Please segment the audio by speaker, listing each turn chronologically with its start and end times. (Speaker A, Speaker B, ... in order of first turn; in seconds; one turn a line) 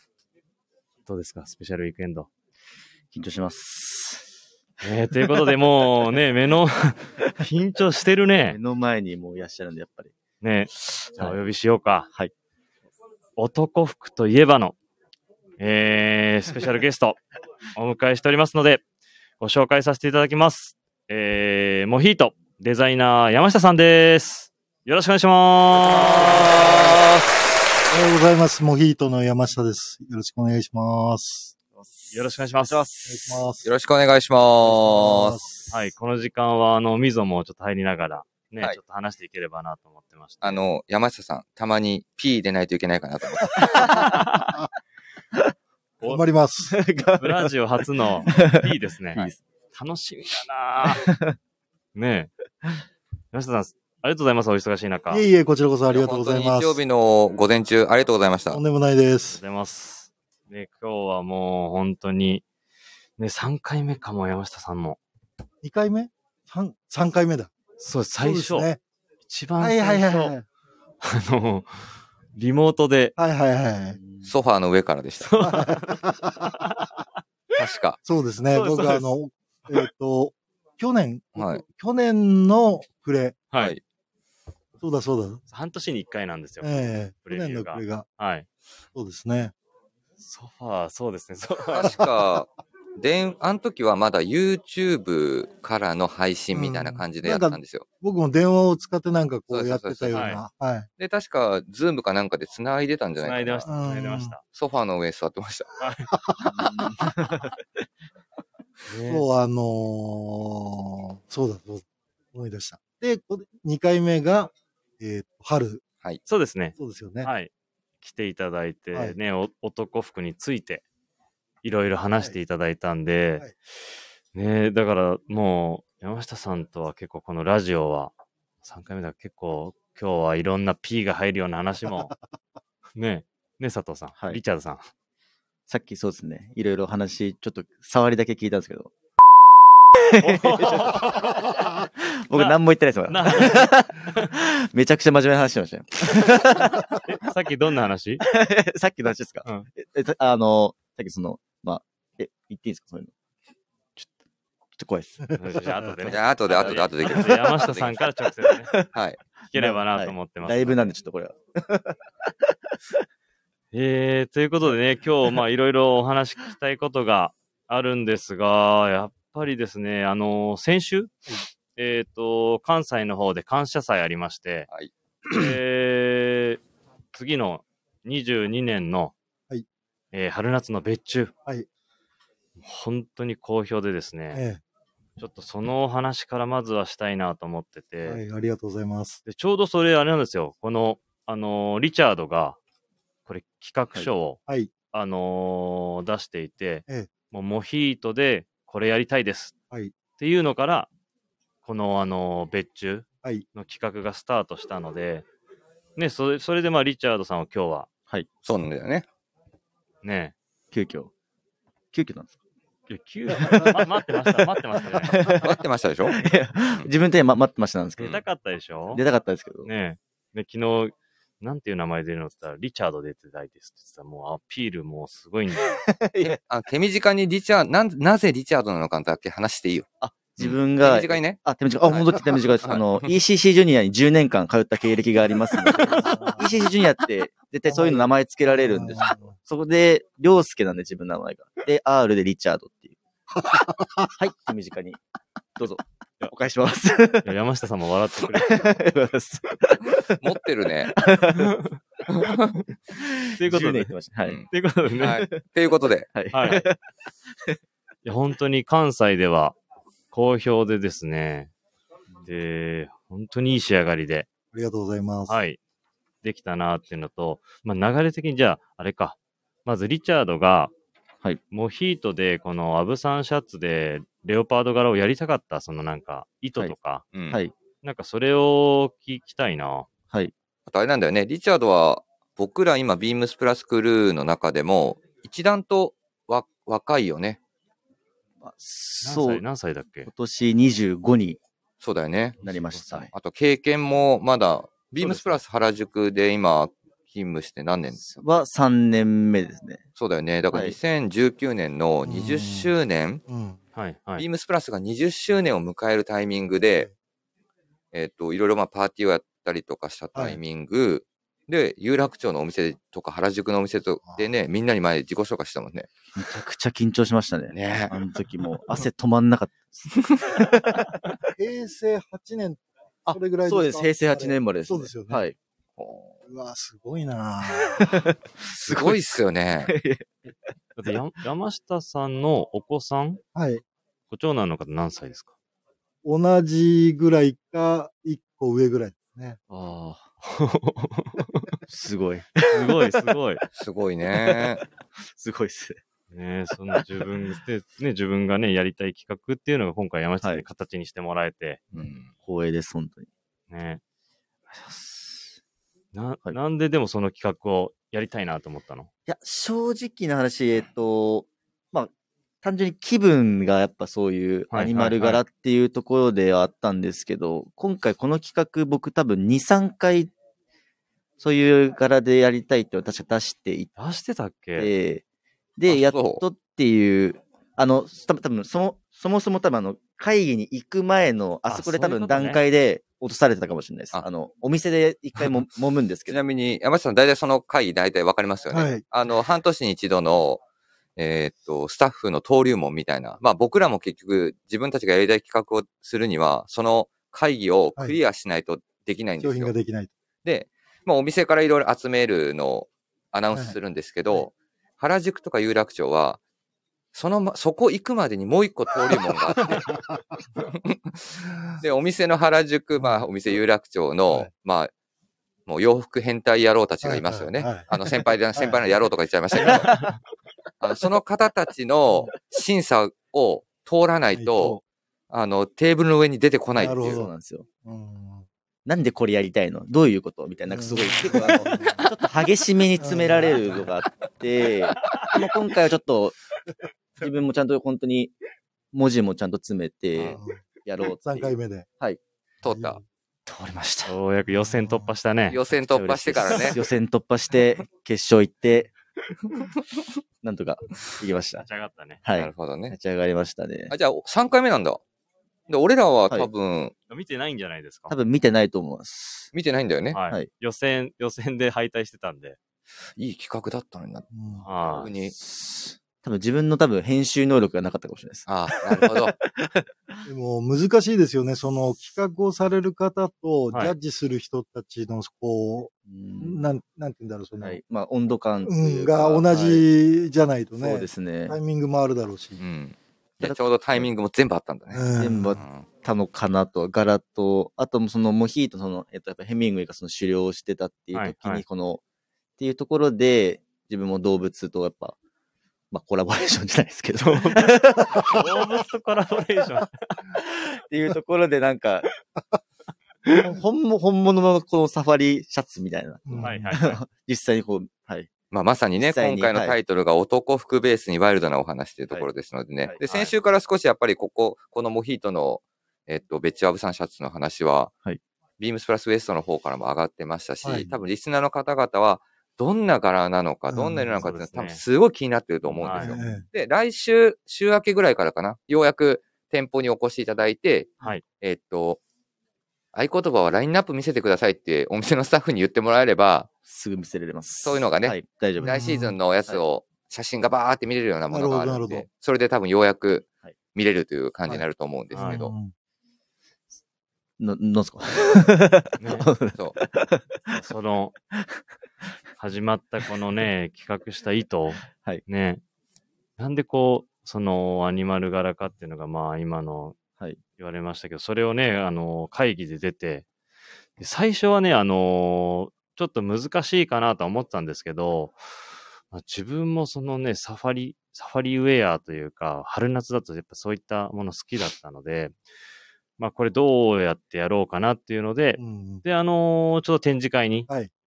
Speaker A: 1.1-2.3
Speaker B: 3.1-4.3
Speaker A: 4.8-8.6
Speaker B: 8.5-10.1
Speaker A: 10.4-12.1
Speaker B: 11.0-11.4
Speaker A: 13.4-14.8
Speaker A: 15.6-17.2
Speaker A: 17.8-18.8
Speaker A: 19.4-27.0
Speaker B: 25.8-27.2
Speaker C: 27.9-31.5
Speaker B: 31.8-33.4
Speaker A: 32.1-32.8
Speaker C: 33.1-33.7
Speaker D: 33.6-35.4
Speaker C: 34.6-35.6
Speaker A: 35.7-40.6
Speaker D: 40.4-44.1
Speaker A: 43.9-44.6
Speaker C: 46.0-46.8
Speaker B: 46.7-49.4
Speaker A: 47.2-51.1
Speaker B: 50.9-51.4
Speaker A: 52.0-52.3
Speaker A: 53.3-55.2
Speaker C: 55.1-56.8
Speaker D: 55.9-58.6
Speaker C: 58.5-59.4
Speaker A: 59.3-62.4
Speaker A: 63.2-65.0
Speaker C: 65.6-67.5
Speaker A: 67.8-68.7
Speaker C: 68.2-68.8
Speaker A: 69.3-70.3
Speaker C: 69.6-70.5
Speaker A: 71.0-73.2
Speaker C: 73.2-74.0
Speaker B: 74.0-74.3
Speaker D: 74.3-75.7
Speaker A: 75.2-77.0
Speaker C: 75.4-76.6
Speaker D: 77.5-78.0
Speaker C: 78.0-83.5
Speaker A: 78.5-79.1
Speaker D: 81.4-81.6
Speaker A: 83.5-83.8
Speaker C: 84.8-85.4
Speaker A: 85.5-88.5
Speaker C: 86.6-88.1
Speaker C: 88.9-89.5
Speaker A: 90.2-92.0
Speaker D: 91.7-97.8
Speaker C: 96.5-100.9
Speaker D: 99.5-100.4
Speaker A: 100.1-100.4
Speaker D: 101.0-103.7
Speaker A: 103.2-104.4
Speaker C: 103.7-104.3
Speaker D: 104.5-105.7
Speaker A: 105.8-106.1
Speaker C: 106.1-106.9
Speaker B: 106.5-107.5
Speaker A: 108.9-109.2
Speaker C: 109.0-115.8
Speaker A: 116.3-120.8
Speaker C: 116.8-117.3
Speaker A: 121.6-123.5
Speaker A: 124.3-132.2
Speaker A: 133.0-134.9
Speaker B: 135.7-138.9
Speaker B: 139.9-147.0
Speaker A: 140.2-142.6
Speaker A: 143.1-144.3
Speaker A: 146.1-148.2
Speaker B: 148.2-153.1
Speaker B: 154.8-159.0
Speaker A: 155.4-158.8
Speaker D: 156.1-157.6
Speaker D: 158.9-159.2
Speaker A: 159.5-160.8
Speaker B: 159.5-162.5
Speaker A: 163.7-171.1
Speaker A: 171.8-174.7
Speaker A: 175.3-176.6
Speaker A: 177.1-179.1
Speaker A: 180.1-181.3
Speaker A: 182.6-184.4
Speaker C: 184.3-184.6
Speaker A: 185.2-188.2
Speaker C: 188.0-189.2
Speaker A: 189.2-192.6
Speaker A: 193.3-194.4
Speaker A: 194.9-199.5
Speaker A: 200.2-200.9
Speaker A: 201.6-205.2
Speaker A: 206.0-207.9
Speaker D: 208.4-209.1
Speaker A: 210.0-210.3
Speaker B: 210.7-211.1
Speaker B: 211.9-212.3
Speaker A: 212.9-215.4
Speaker B: 213.3-218.2
Speaker D: 215.2-216.9
Speaker A: 218.0-219.0
Speaker B: 218.9-219.7
Speaker A: 219.6-225.8
Speaker B: 225.8-226.4
Speaker D: 226.2-229.9
Speaker B: 230.0-243.0
Speaker D: 230.4-233.1
Speaker C: 235.8-236.5
Speaker C: 237.7-239.3
Speaker C: 243.4-244.1
Speaker B: 244.2-245.0
Speaker B: 245.6-247.3
Speaker A: 247.2-248.7
Speaker B: 248.3-250.2
Speaker D: 250.2-250.9
Speaker B: 250.9-251.5
Speaker A: 251.3-251.8
Speaker D: 252.1-252.6
Speaker B: 252.9-255.4
Speaker A: 253.4-253.9
Speaker A: 254.5-255.2
Speaker D: 255.0-256.1
Speaker B: 256.1-256.8
Speaker A: 256.3-256.6
Speaker A: 258.1-259.6
Speaker A: 260.1-261.5
Speaker A: 262.2-264.3
Speaker C: 264.5-265.4
Speaker A: 265.3-265.6
Speaker A: 266.2-270.7
Speaker A: 271.5-277.1
Speaker D: 277.1-277.4
Speaker A: 277.8-279.9
Speaker D: 280.7-287.4
Speaker B: 288.4-289.4
Speaker A: 289.0-290.1
Speaker B: 290.1-291.4
Speaker D: 291.8-292.4
Speaker B: 292.4-293.1
Speaker A: 292.7-293.0
Speaker D: 293.1-298.0
Speaker B: 295.0-295.4
Speaker B: 298.0-299.8
Speaker D: 300.0-303.2
Speaker B: 300.5-300.8
Speaker C: 302.1-302.7
Speaker C: 303.3-303.6
Speaker A: 303.8-304.2
Speaker D: 304.2-306.9
Speaker D: 307.9-315.9
Speaker B: 316.1-320.9
Speaker D: 317.5-317.9
Speaker C: 321.4-325.2
Speaker B: 323.1-325.4
Speaker D: 325.8-326.1
Speaker C: 326.3-328.0
Speaker B: 327.5-330.1
Speaker D: 328.6-329.7
Speaker A: 330.8-333.2
Speaker C: 333.4-333.6
Speaker A: 334.1-335.3
Speaker C: 336.0-339.4
Speaker B: 339.5-340.1
Speaker A: 340.2-341.6
Speaker B: 341.6-343.4
Speaker A: 342.5-343.4
Speaker D: 343.5-344.6
Speaker B: 344.1-345.8
Speaker A: 346.1-351.6
Speaker B: 346.8-347.1
Speaker B: 351.7-353.1
Speaker D: 351.7-352.1
Speaker A: 353.5-353.8
Speaker B: 354.5-355.4
Speaker A: 355.9-358.9
Speaker B: 359.1-361.9
Speaker B: 362.4-370.1
Speaker A: 364.5-365.2
Speaker B: 371.2-373.7
Speaker A: 373.8-374.7
Speaker B: 374.6-375.0
Speaker B: 375.6-386.2
Speaker D: 375.7-376.2
Speaker A: 381.5-382.4
Speaker D: 386.1-390.4
Speaker C: 388.5-388.8
Speaker D: 391.0-399.5
Speaker C: 399.2-399.9
Speaker D: 400.2-406.2
Speaker D: 406.9-409.8
Speaker C: 409.4-410.0
Speaker D: 410.4-414.7
Speaker C: 411.3-411.6
Speaker C: 412.8-413.1
Speaker D: 415.5-419.9
Speaker C: 416.8-417.7
Speaker C: 418.4-418.6
Speaker B: 419.4-419.9
Speaker D: 420.6-424.6
Speaker C: 424.1-424.6
Speaker D: 425.1-427.0
Speaker C: 426.6-427.1
Speaker B: 426.7-427.5
Speaker C: 427.6-428.2
Speaker B: 428.6-436.2
Speaker C: 430.5-431.9
Speaker C: 432.8-433.6
Speaker B: 437.0-438.1
Speaker B: 438.7-442.0
Speaker C: 440.1-441.6
Speaker D: 442.4-442.8
Speaker C: 442.4-442.8
Speaker B: 443.2-444.0
Speaker A: 443.9-445.4
Speaker C: 444.4-444.9
Speaker D: 445.3-446.6
Speaker B: 445.7-448.7
Speaker B: 450.2-451.5
Speaker A: 451.4-452.0
Speaker B: 452.0-453.7
Speaker D: 452.1-452.8
Speaker D: 453.7-454.8
Speaker D: 455.5-456.7
Speaker A: 456.9-457.9
Speaker B: 457.9-459.3
Speaker D: 459.3-460.0
Speaker A: 459.9-462.4
Speaker D: 463.0-464.1
Speaker C: 464.1-464.5
Speaker A: 464.4-464.9
Speaker D: 464.6-465.1
Speaker B: 465.1-470.0
Speaker D: 468.3-469.1
Speaker C: 470.1-477.6
Speaker B: 475.9-476.5
Speaker B: 477.4-479.6
Speaker C: 478.4-482.4
Speaker B: 480.6-481.4
Speaker D: 482.4-485.6
Speaker B: 483.2-483.9
Speaker C: 484.7-485.4
Speaker B: 485.0-491.8
Speaker A: 490.9-491.4
Speaker B: 492.4-495.0
Speaker B: 495.7-498.2
Speaker A: 497.0-500.0
Speaker B: 500.1-501.9
Speaker B: 503.1-508.1
Speaker C: 506.1-506.6
Speaker A: 506.2-506.8
Speaker D: 508.3-517.7
Speaker B: 508.8-509.6
Speaker A: 512.8-513.1
Speaker D: 518.4-531.8
Speaker C: 523.5-524.0
Speaker A: 524.0-524.6
Speaker A: 525.5-526.0
Speaker C: 525.8-526.2
Speaker D: 532.7-536.3
Speaker B: 536.5-538.6
Speaker D: 537.4-545.3
Speaker C: 538.4-539.0
Speaker C: 541.1-541.9
Speaker C: 544.3-545.5
Speaker A: 544.9-545.2
Speaker B: 547.2-550.4
Speaker A: 548.8-549.1
Speaker A: 550.3-551.0
Speaker A: 552.2-555.4
Speaker B: 554.7-555.0
Speaker A: 556.2-559.8
Speaker A: 560.4-563.1
Speaker A: 563.8-568.2
Speaker A: 568.9-575.1
Speaker A: 576.0-580.5
Speaker C: 578.4-578.8